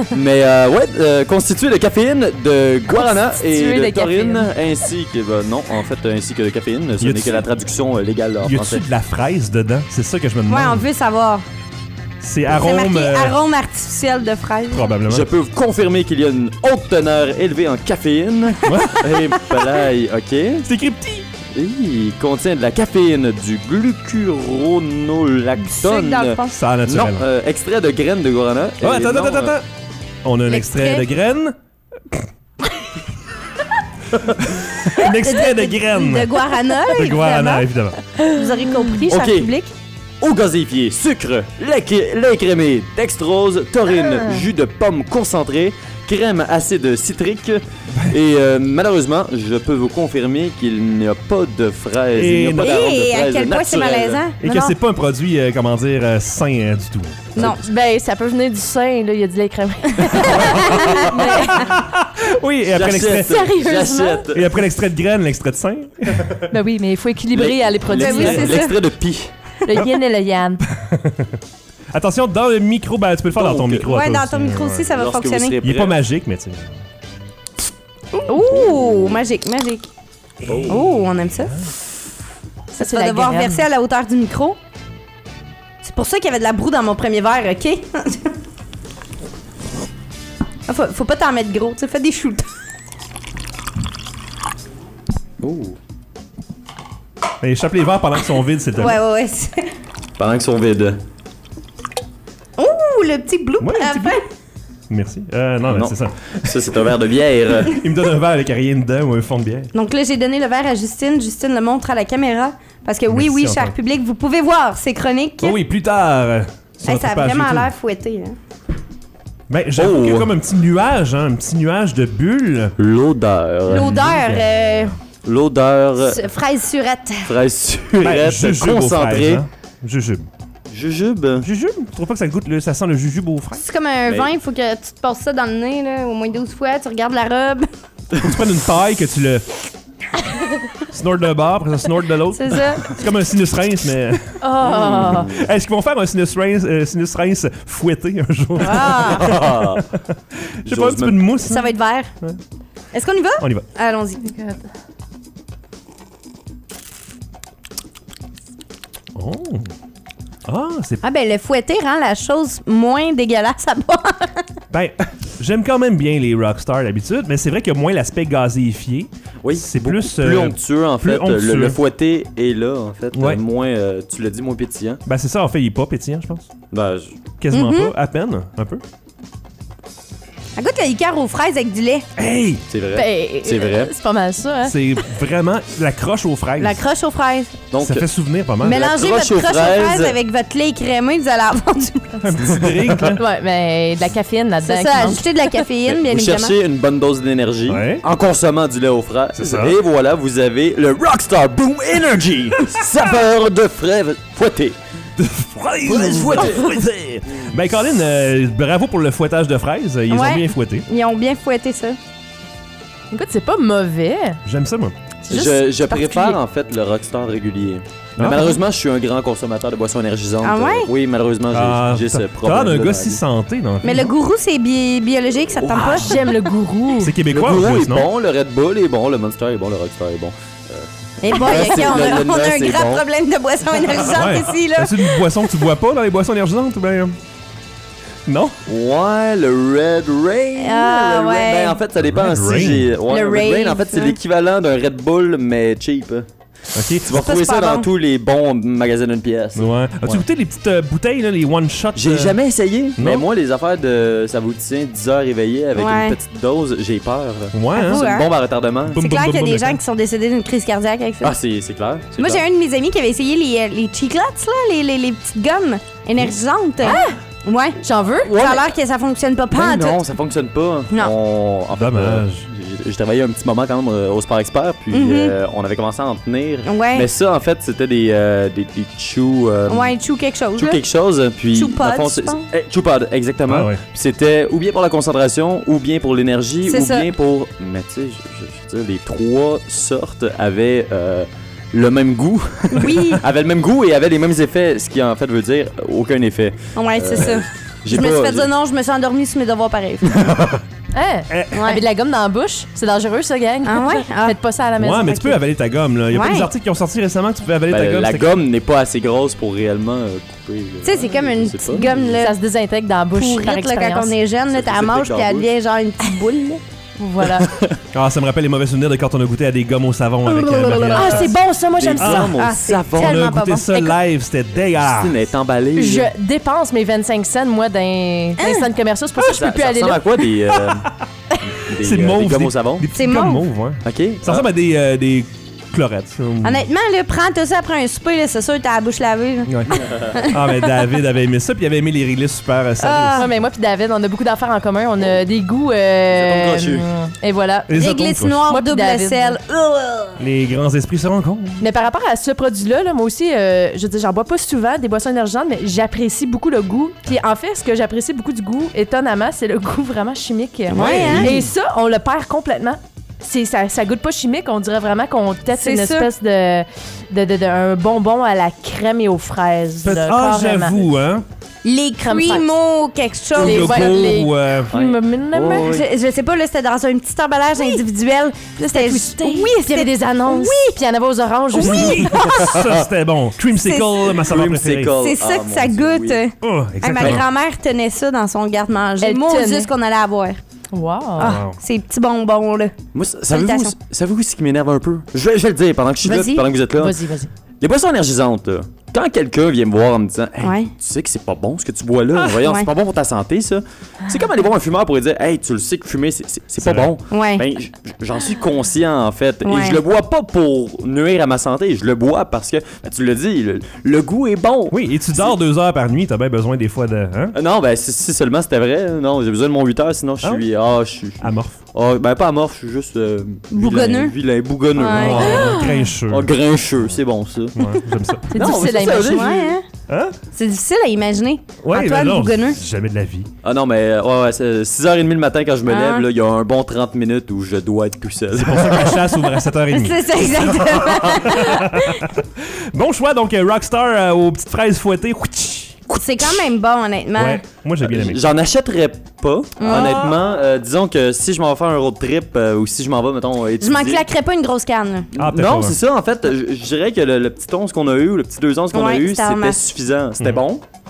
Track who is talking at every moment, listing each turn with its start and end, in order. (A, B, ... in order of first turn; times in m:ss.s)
0:00.1-0:08.8 A
0:02.9-0:04.5 B
0:07.0-0:07.4 C
0:08.4-0:10.8 C
0:10.5-0:11.4 D
0:12.2-0:13.4 C
0:12.5-0:14.8 D
0:14.7-0:15.3 C
0:15.1-0:20.6 A
0:18.6-0:19.1 C
0:20.6-0:21.2 C
0:21.5-0:29.6 A
0:25.6-0:26.6 D
0:26.5-0:27.2 C
0:28.8-0:29.7 C
0:30.2-0:31.5 C
0:30.5-0:31.0 D
0:34.1-0:38.0 C
0:34.9-0:39.7 D
0:38.3-0:38.9 B
0:39.1-0:39.5 A
0:40.2-0:54.2 A
0:52.1-0:52.8 C
0:52.6-0:54.4 D
0:54.4-0:57.5 C
0:54.4-0:54.7 B
0:57.4-0:57.6 D
0:57.5-1:01.7 B
1:00.0-1:01.5 D
1:00.2-1:03.5 C
1:02.7-1:04.6 A
1:03.5-1:04.2 D
1:04.3-1:06.5 C
1:06.5-1:08.6 B
1:07.3-1:09.3 A
1:07.9-1:08.7 D
1:09.6-1:10.6 B
1:10.7-1:11.3 C
1:11.9-1:14.9 C
1:13.3-1:13.9 A
1:13.8-1:15.6 D
1:14.9-1:16.0 A
1:15.6-1:16.8 C
1:18.2-1:19.9 D
1:18.3-1:19.2 A
1:20.4-1:21.6 C
1:20.5-1:21.0 A
1:20.7-1:21.6 D
1:22.7-1:24.6 D
1:22.8-1:23.6 B
1:25.8-1:28.3 D
1:30.7-1:32.5 D
1:35.4-1:35.8 A
1:37.4-1:39.0 C
1:38.7-1:39.7 D
1:40.2-1:41.0 A
1:42.6-1:44.2 D
1:43.6-1:44.2 C
1:44.9-1:46.5 C
1:45.7-1:47.8 A
1:47.6-1:49.7 C
1:49.7-1:55.6 D
1:53.1-1:53.7 C
1:55.4-1:57.7 C
1:56.8-1:58.4 D
1:59.5-2:02.7 C
1:59.8-2:00.3 A
2:02.8-2:04.2 A
2:03.7-2:04.8 C
2:03.7-2:04.9 D
2:05.2-2:06.2 A
2:06.0-2:07.3 D
2:07.2-2:09.4 A
2:08.0-2:10.2 C
2:10.7-2:11.4 A
2:11.4-2:13.6 C
2:13.6-2:17.7 D
2:18.2-2:19.4 C
2:20.9-2:32.4 C
2:22.3-2:22.9 D
2:24.4-2:25.3 B
2:24.6-2:25.5 A
2:28.6-2:29.4 D
2:29.1-2:29.9 A
2:30.6-2:31.3 A
2:31.4-2:32.1 D
2:32.9-2:34.3 D
2:33.4-2:33.6 C
2:39.1-2:39.7 C
2:40.5-2:41.0 C
2:41.0-2:44.4 D
2:44.7-2:51.8 C
2:49.4-2:55.0 A
2:53.1-2:53.4 C
2:55.0-2:56.5 C
2:56.7-2:57.2 A
2:57.4-2:58.8 C
2:57.5-2:57.9 D
3:00.6-3:02.0 D
3:02.2-3:02.6 C
3:02.7-3:03.9 A
3:02.9-3:04.7 B
3:04.6-3:06.8 C
3:06.6-3:07.6 D
3:07.7-3:08.1 A
3:07.8-3:08.8 C
3:08.6-3:10.2 A
3:08.6-3:12.1 D
3:12.2-3:13.2 C
3:12.5-3:13.1 A
3:13.2-3:15.6 B
3:14.6-3:16.6 D
3:15.8-3:24.8 A
3:17.7-3:18.0 C
3:19.3-3:19.8 C
3:25.2-3:30.9 C
3:25.8-3:26.8 A
3:30.1-3:32.0 D
3:33.1-3:34.4 B
3:34.4-3:34.9 C
3:35.3-3:36.4 D
3:35.3-3:43.2 A
3:38.2-3:38.6 C
3:40.4-3:40.9 D
3:41.5-3:44.1 C
3:43.8-3:46.2 D
3:45.7-3:47.1 B
3:45.7-3:46.1 C
3:47.0-3:48.1 C
3:47.3-3:53.0 A
3:51.2-3:55.3 D
3:54.1-3:57.2 C
3:58.3-3:58.5 C
3:58.6-4:06.2 A
4:00.6-4:01.8 D
4:02.0-4:02.9 C
4:03.1-4:04.2 D
4:06.7-4:07.0 C
4:06.9-4:10.2 A
4:07.1-4:07.9 D
4:09.6-4:12.4 C
4:11.9-4:19.0 A
4:13.0-4:13.2 C
4:15.8-4:16.2 D
4:17.5-4:18.0 C
4:17.7-4:18.3 D
4:18.9-4:19.8 C
4:19.0-4:21.3 D
4:21.2-4:22.4 A
4:22.2-4:27.8 D
4:26.8-4:27.2 B
4:27.8-4:28.4 B
4:28.2-4:28.7 A
4:28.3-4:30.0 D
4:29.5-4:39.9 A
4:31.7-4:32.5 C
4:34.9-4:35.3 D
4:36.6-4:37.1 D
4:39.7-4:40.8 D
4:40.6-4:58.5 A
4:41.5-4:42.4 D
4:43.5-4:43.8 C
4:46.6-4:47.1 D
4:52.7-4:53.2 D
4:56.8-5:00.2 D
5:00.1-5:00.6 A
5:00.9-5:05.3 B
5:01.3-5:01.6 C
5:01.5-5:01.8 D
5:03.6-5:04.4 D
5:04.8-5:08.4 C
5:05.1-5:05.3 D
5:06.1-5:06.5 D
5:07.7-5:12.2 A
5:10.8-5:12.3 D
5:12.1-5:14.1 B
5:13.1-5:16.6 D
5:14.5-5:15.5 A
5:17.0-5:17.5 B
5:17.3-5:17.8 A
5:17.9-5:21.3 C
5:20.4-5:21.3 D
5:20.9-5:22.4 B
5:21.7-5:23.2 A
5:22.0-5:22.4 C
5:22.3-5:23.4 D
5:22.9-5:25.1 C
5:23.1-5:23.9 B
5:24.8-5:26.1 A
5:25.7-5:30.0 B
5:28.4-5:28.6 D
5:29.2-5:30.9 A
5:30.5-5:31.0 C
5:31.6-5:32.8 A
5:31.8-5:36.6 C
5:32.9-5:33.4 D
5:33.8-5:34.5 A
5:36.4-5:40.6 D
5:39.5-5:43.2 C
5:42.8-5:43.3 D
5:43.1-5:47.8 B
5:46.1-5:46.9 A
5:47.7-5:48.4 C
5:47.7-5:50.2 D
5:48.4-5:49.4 B
5:50.2-5:51.6 C
5:51.6-6:10.9 B
6:00.7-6:01.3 D
6:00.7-6:01.4 A
6:00.7-6:01.4 C
6:05.5-6:06.1 D
6:09.8-6:11.2 C
6:11.6-6:14.0 D
6:12.0-6:12.5 B
6:13.3-6:15.7 B
6:13.4-6:14.7 C
6:14.7-6:15.9 A
6:15.5-6:20.8 D
6:17.6-6:17.8 B
6:18.6-6:22.1 B
6:21.5-6:24.9 C
6:21.7-6:22.4 D
6:22.1-6:22.8 A
6:23.6-6:24.2 D
6:24.1-6:26.2 A
6:25.0-6:30.4 D
6:26.4-6:27.2 C
6:29.0-6:29.7 B
6:30.7-6:31.4 B
6:31.2-6:32.7 D
6:31.2-6:31.6 C
6:32.9-6:37.0 A
6:33.3-6:33.7 D
6:36.0-6:36.5 D
6:36.7-6:37.3 B
6:37.6-6:55.4 A
6:40.4-6:40.7 D
6:42.2-6:42.7 D
6:46.6-6:46.9 C
6:47.1-6:47.4 D
6:49.4-6:49.8 D
6:54.7-6:57.4 C
6:57.3-7:07.8 A
7:01.2-7:01.6 C
7:03.5-7:04.1 D
7:04.8-7:05.6 D
7:04.9-7:06.3 C
7:05.0-7:05.9 B
7:07.6-7:08.3 C
7:08.3-7:09.2 B
7:08.3-7:09.6 A
7:09.0-7:09.6 D
7:09.9-7:10.1 C
7:10.3-7:12.6 D
7:11.6-7:13.3 C
7:13.4-7:19.5 A
7:15.7-7:16.1 D
7:18.4-7:25.8 C
7:19.7-7:22.0 D
7:25.9-7:27.4 D
7:27.2-7:28.2 C
7:27.8-7:34.0 A
7:29.6-7:30.2 D
7:33.6-7:35.1 D
7:35.1-7:40.6 A
7:35.2-7:35.8 C
7:38.7-7:39.6 D